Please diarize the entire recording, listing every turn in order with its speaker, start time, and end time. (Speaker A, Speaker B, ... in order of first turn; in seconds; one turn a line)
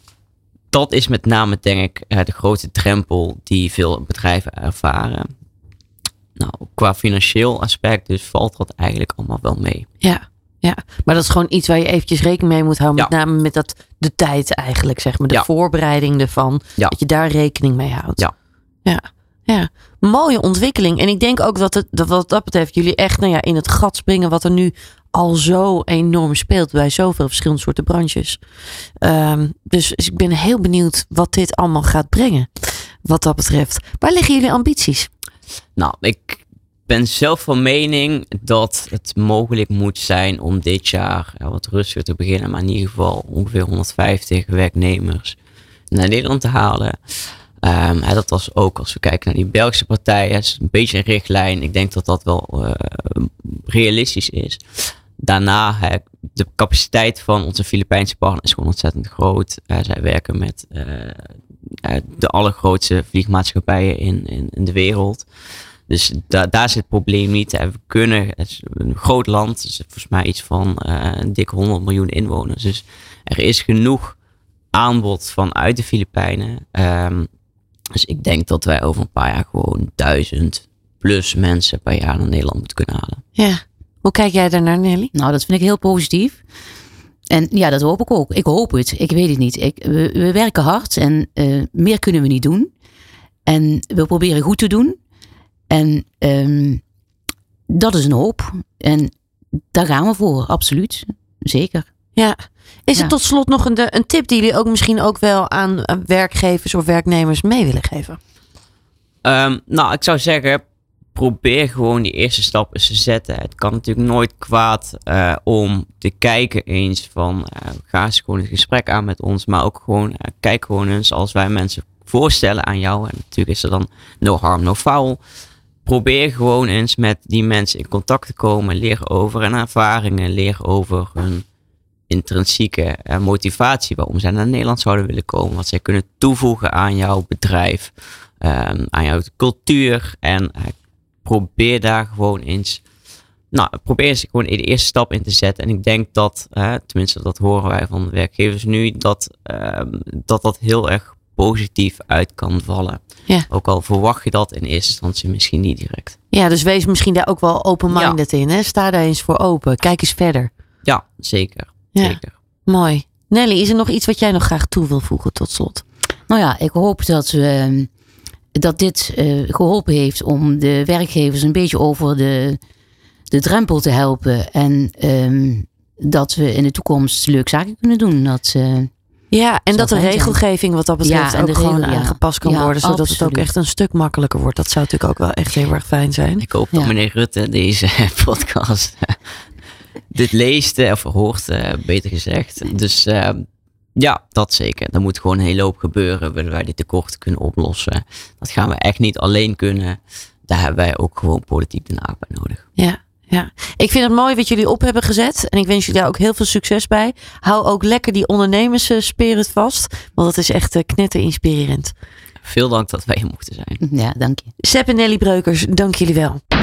Speaker A: 0.7-5.3
Speaker A: 6.4-9.9
Speaker B: 10.0-18.2
Speaker B: 18.9-28.4
Speaker B: 29.0-35.1
Speaker A: 35.8-45.4
Speaker A: 45.9-47.0
Speaker A: 47.6-54.6
Speaker A: 55.2-61.3
Speaker A: 61.8-65.3
Speaker A: 65.9-74.2
Speaker A: 74.7-77.3
Speaker A: 78.0-83.2
Speaker B: 83.4-85.1
Speaker C: 85.1-86.4
Speaker C: 87.3-92.7
Speaker C: 93.5-95.0
Speaker C: 95.7-96.8
Speaker C: 97.7-99.1
Speaker C: 99.7-101.9
Speaker B: 102.2-108.2
Speaker A: 109.2-110.6
Speaker A: 111.2-125.2
Speaker A: 125.9-131.4
Speaker A: 132.1-142.8
Speaker A: 143.5-156.2
Speaker B: 156.3-160.5
Speaker A: 157.9-158.2
Speaker A: 160.8-162.3
Speaker B: 162.0-165.8
Speaker C: 166.3-167.9
Speaker C: 168.6-172.6
Speaker C: 173.3-178.9
Speaker B: 179.3-186.4
Speaker C: 179.7-180.4
Speaker C: 181.0-183.5
Speaker A: 186.4-189.2
Speaker A: 190.1-202.6
Speaker B: 202.8-211.9
Speaker A: 212.4-213.8
Speaker C: 213.8-214.5
Speaker B: 214.6-216.4